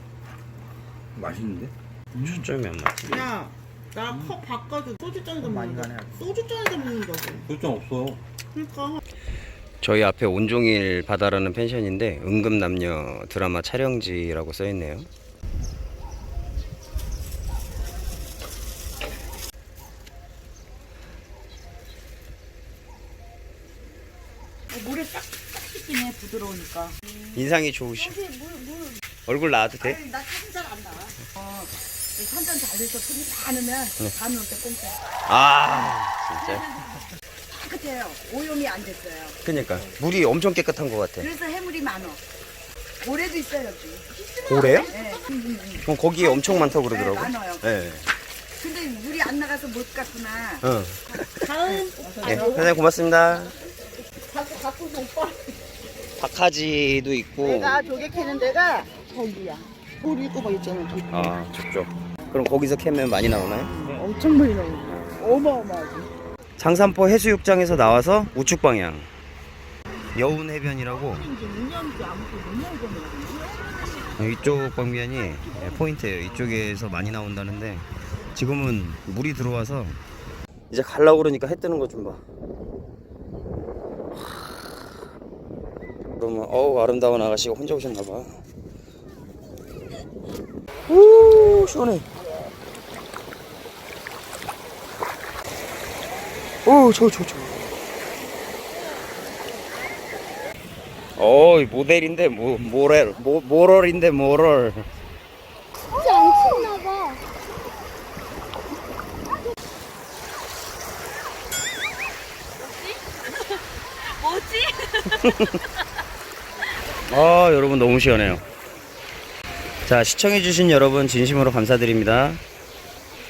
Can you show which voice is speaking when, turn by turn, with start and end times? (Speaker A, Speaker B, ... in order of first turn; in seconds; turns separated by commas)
Speaker A: 1.1-2.3, Speaker B: 2.2-3.3, Speaker C: 3.1-7.5, Speaker A: 5.8-6.2, Speaker A: 7.5-8.2, Speaker C: 8.5-9.0, Speaker B: 9.8-15.1, Speaker C: 24.7-27.0, Speaker B: 27.3-28.2, Speaker D: 28.5-28.9, Speaker B: 29.3-30.0, Speaker C: 29.8-35.0, Speaker B: 35.3-36.6, Speaker C: 36.4-39.4, Speaker B: 39.4-41.3, Speaker C: 41.2-42.2, Speaker C: 43.0-47.6, Speaker B: 44.5-44.9, Speaker B: 45.8-48.1, Speaker C: 48.6-52.7, Speaker B: 50.6-51.7, Speaker D: 52.0-52.7, Speaker B: 52.2-53.5, Speaker C: 54.3-55.6, Speaker B: 56.2-57.8, Speaker C: 57.4-61.4, Speaker D: 57.9-58.2, Speaker B: 61.1-63.7, Speaker C: 63.7-66.1, Speaker B: 66.6-69.1, Speaker B: 70.1-71.3, Speaker C: 70.9-74.2, Speaker B: 74.2-80.0, Speaker C: 75.2-75.8, Speaker B: 80.7-82.2, Speaker B: 86.1-88.4, Speaker B: 90.9-92.1, Speaker B: 96.7-97.7, Speaker B: 101.2-104.9, Speaker D: 105.9-107.2, Speaker D: 114.0-115.1, Speaker B: 115.1-115.6, Speaker B: 117.1-118.4, Speaker B: 119.8-122.4